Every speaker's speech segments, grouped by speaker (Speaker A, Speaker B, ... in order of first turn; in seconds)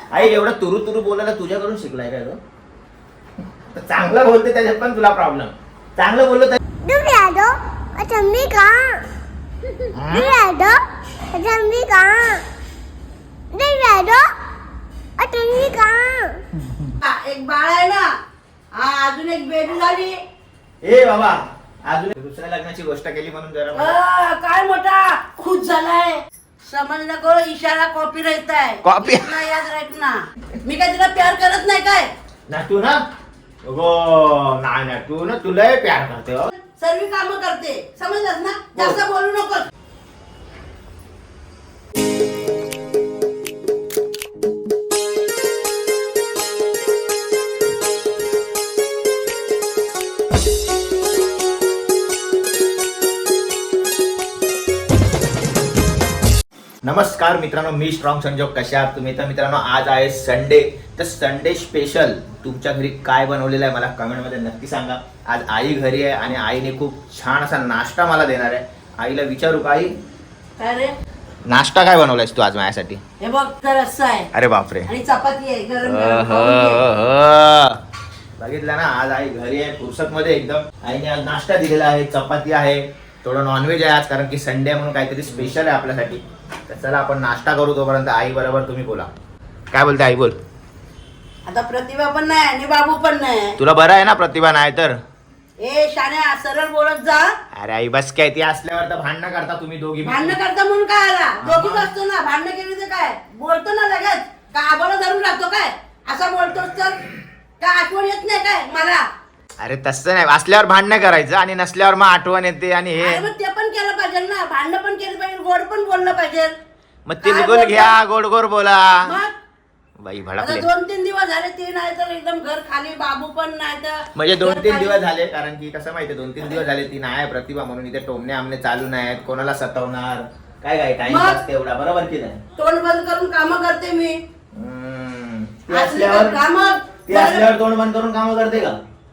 Speaker A: 0.1-2.4, 3.7-6.6, 9.9-10.4, 20.8-24.0, 28.8-29.4, 32.5-33.0, 33.7-36.5, 56.8-69.9, 71.5-73.0, 74.3-74.9, 75.8-77.8, 78.4-89.1, 89.7-90.4, 93.6-95.0, 97.5-100.4, 101.4-101.9, 109.6-113.3, 117.1-119.2, 120.0-120.7, 124.2-132.4, 134.5-136.4, 137.1-138.8
Speaker B: 6.8-9.1, 10.1-12.4, 13.5-14.3, 15.2-16.4
Speaker C: 17.0-18.1, 18.8-20.1, 23.8-32.1, 36.6-39.7, 70.6-70.9, 73.2-74.3, 74.9-76.8, 91.5-93.6, 95.6-97.3, 100.0-107.0, 107.6-109.0, 113.0-116.5, 117.2-118.0, 119.0-119.3, 120.4-125.0, 131.1-131.4, 132.6-134.2, 135.7-137.5